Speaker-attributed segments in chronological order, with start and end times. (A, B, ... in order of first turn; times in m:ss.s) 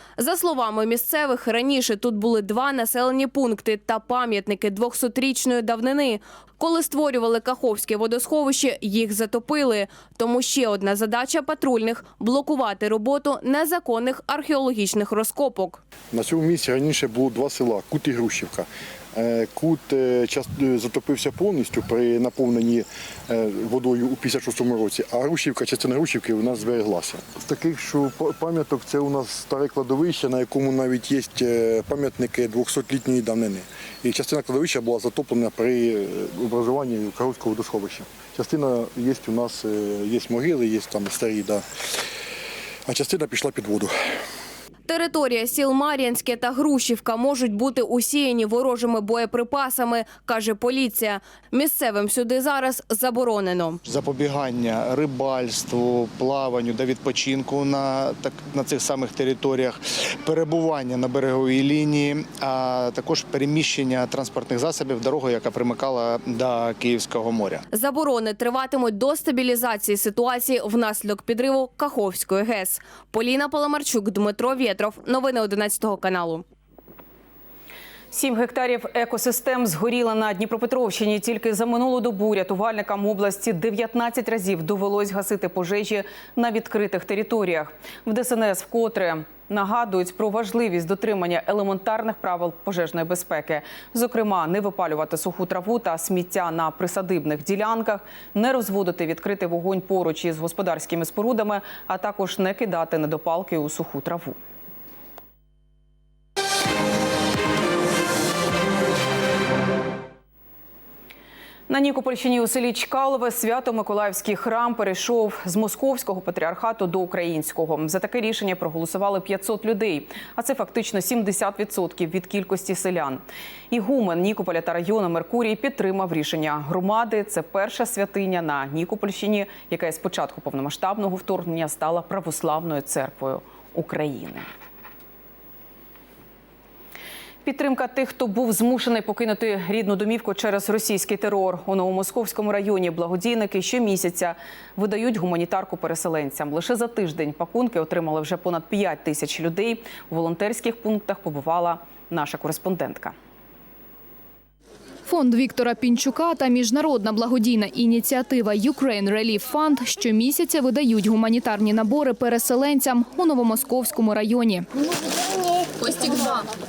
0:00.2-0:15.8 A
0:16.1-0:41.6 B
0:42.8-0:43.9 B
0:44.9-0:53.8 A
0:53.8-1:07.6 C
1:07.7-1:16.4 A
1:18.1-1:44.4 D
1:51.7-2:14.5 D
2:17.4-2:33.1 D
2:35.1-2:44.7 E